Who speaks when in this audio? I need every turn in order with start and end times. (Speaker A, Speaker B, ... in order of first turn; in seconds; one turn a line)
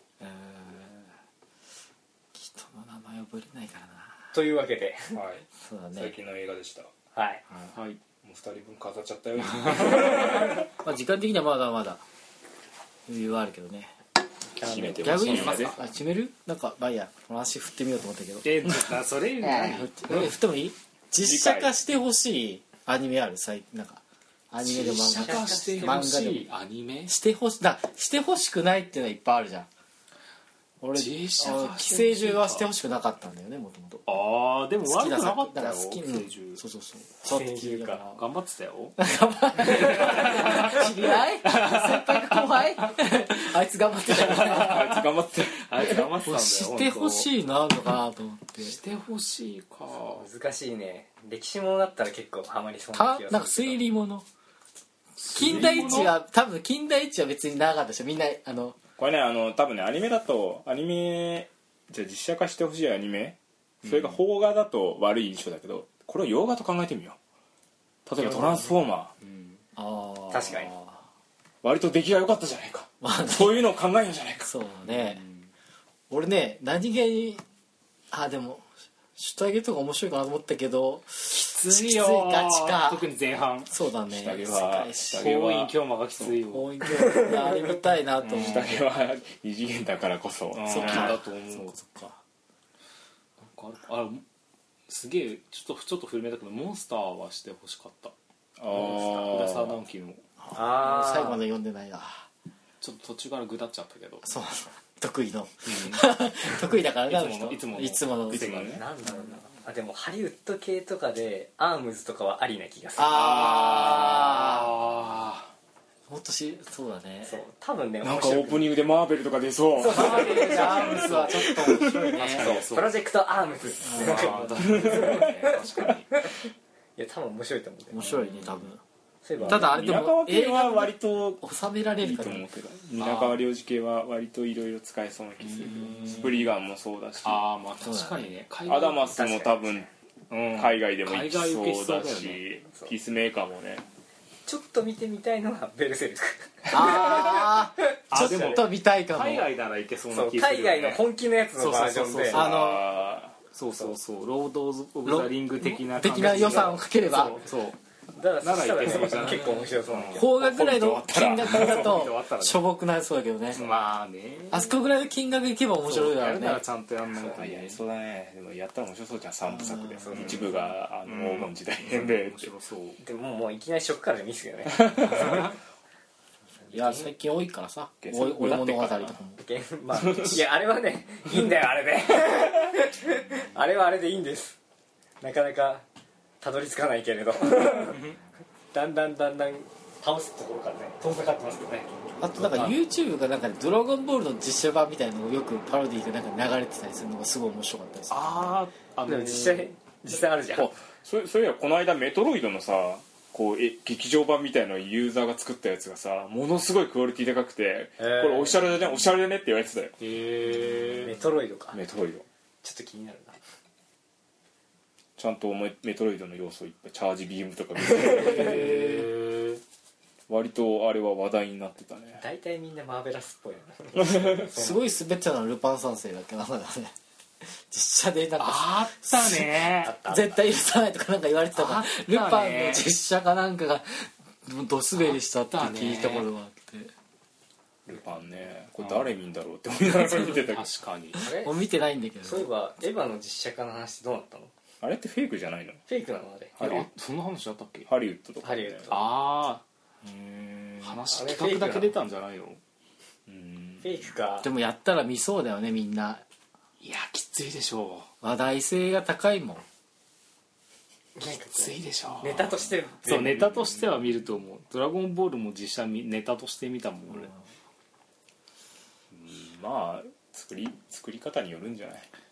Speaker A: 0.2-1.1
Speaker A: 2.3-4.3
Speaker B: 4.3-5.2
Speaker C: 5.1-6.9
Speaker A: 5.6-6.1
Speaker B: 7.1-7.4
Speaker D: 7.7-8.0
Speaker C: 8.2-10.7
Speaker A: 10.4-12.0
Speaker A: 13.1-13.9
Speaker C: 14.6-15.8
Speaker B: 14.6-15.7
Speaker A: 15.0-26.5
Speaker D: 15.2-15.7
Speaker D: 18.4-20.3
Speaker C: 21.2-21.7
Speaker D: 24.6-27.1
Speaker B: 25.0-26.2
Speaker A: 27.1-29.7
Speaker A: 30.8-34.2
Speaker D: 30.9-32.7
Speaker D: 34.1-36.6
Speaker A: 34.8-38.2
Speaker B: 37.3-38.0
Speaker D: 38.1-39.0
Speaker A: 39.0-45.1
Speaker D: 39.6-42.4
Speaker D: 44.1-47.3
Speaker C: 44.4-45.9
Speaker A: 45.8-48.8
Speaker D: 48.6-50.3
Speaker B: 50.1-53.8
Speaker A: 52.9-54.2
Speaker D: 55.2-56.2
Speaker A: 55.3-58.8
Speaker C: 59.0-67.2
Speaker D: 63.9-64.2
Speaker C: 68.1-69.1
Speaker B: 68.2-68.7
Speaker D: 69.2-69.6
Speaker A: 69.8-71.0
Speaker B: 70.3-70.7
Speaker C: 71.6-74.5
Speaker A: 73.0-73.7
Speaker A: 74.4-75.2
Speaker D: 74.9-75.5
Speaker A: 76.1-77.4
Speaker A: 78.1-83.1
Speaker D: 81.3-83.7
Speaker A: 83.7-85.3
Speaker C: 84.1-86.4
Speaker D: 85.1-86.7
Speaker A: 86.4-88.8
Speaker C: 88.2-91.2
Speaker D: 90.5-91.8
Speaker A: 90.7-92.2
Speaker D: 93.4-94.2
Speaker D: 94.9-98.1
Speaker C: 98.6-99.8
Speaker D: 98.7-100.2
Speaker A: 100.4-102.3
Speaker B: 100.5-101.4
Speaker D: 102.8-104.3
Speaker A: 104.2-108.7
Speaker D: 105.7-108.9
Speaker C: 108.3-108.8
Speaker B: 108.7-113.7
Speaker A: 113.0-114.7
Speaker D: 113.0-115.5
Speaker A: 116.1-117.4
Speaker B: 117.2-118.7
Speaker C: 118.0-122.2
Speaker A: 119.8-122.5
Speaker B: 119.9-121.0
Speaker D: 120.7-121.2
Speaker D: 122.1-123.0
Speaker B: 122.4-126.4
Speaker A: 123.8-124.7
Speaker D: 123.8-126.1
Speaker C: 124.6-125.9
Speaker B: 127.0-128.2
Speaker A: 127.9-128.8
Speaker D: 128.3-128.6
Speaker B: 129.2-129.8
Speaker C: 129.4-131.4
Speaker A: 129.4-132.4
Speaker C: 132.0-137.5
Speaker D: 133.0-133.4
Speaker D: 135.4-136.5
Speaker D: 137.2-139.3
Speaker A: 137.8-138.3
Speaker C: 138.7-139.9
Speaker B: 139.1-139.9
Speaker D: 140.3-142.4
Speaker C: 140.5-143.8
Speaker B: 144.5-148.6
Speaker A: 146.7-149.5
Speaker D: 148.1-151.0
Speaker B: 150.1-152.5
Speaker D: 151.6-152.8
Speaker A: 152.3-153.0
Speaker C: 152.3-153.4
Speaker D: 153.5-157.8
Speaker A: 155.1-157.4
Speaker B: 158.1-160.3
Speaker D: 158.4-160.3
Speaker A: 160.1-163.7
Speaker C: 160.2-162.2
Speaker D: 161.4-162.6
Speaker D: 163.5-164.8
Speaker A: 164.5-166.6
Speaker D: 165.8-167.8
Speaker C: 167.2-172.5
Speaker A: 169.5-170.1
Speaker B: 169.9-170.5
Speaker D: 170.3-173.0
Speaker B: 173.0-175.5
Speaker B: 176.7-177.1
Speaker A: 176.7-179.4
Speaker C: 178.0-179.2
Speaker B: 179.4-184.6
Speaker C: 180.0-180.4
Speaker B: 185.2-185.8
Speaker B: 186.4-188.1
Speaker B: 188.7-192.8
Speaker A: 192.2-198.5
Speaker D: 198.1-199.7
Speaker B: 199.1-200.7
Speaker C: 200.6-210.0
Speaker B: 208.0-208.7
Speaker D: 210.0-211.2
Speaker C: 210.7-211.2
Speaker B: 211.0-211.8
Speaker C: 211.7-212.3
Speaker B: 212.6-213.4
Speaker C: 215.2-219.0
Speaker D: 218.0-219.6
Speaker C: 220.3-222.2
Speaker B: 222.2-224.9
Speaker C: 224.0-224.4
Speaker A: 224.5-226.9
Speaker A: 227.5-229.5
Speaker D: 228.4-229.9
Speaker B: 229.7-230.5
Speaker A: 230.1-236.9
Speaker D: 231.6-232.9
Speaker D: 235.0-236.3
Speaker C: 237.9-240.7
Speaker D: 238.8-239.1
Speaker D: 239.9-241.2
Speaker B: 241.2-241.6
Speaker A: 241.3-242.5
Speaker B: 242.2-244.5
Speaker C: 244.8-245.8
Speaker B: 245.9-246.6
Speaker C: 246.6-246.9
Speaker D: 246.6-247.9
Speaker C: 247.9-248.9
Speaker B: 248.4-249.0
Speaker D: 248.9-249.6
Speaker C: 250.1-250.4
Speaker D: 250.8-252.6
Speaker B: 251.1-251.9
Speaker C: 253.3-253.9
Speaker B: 253.8-254.5
Speaker A: 254.4-256.2
Speaker D: 256.8-258.1
Speaker A: 258.2-259.6
Speaker B: 261.2-263.5
Speaker D: 261.5-267.3
Speaker C: 263.4-264.0
Speaker C: 269.1-272.1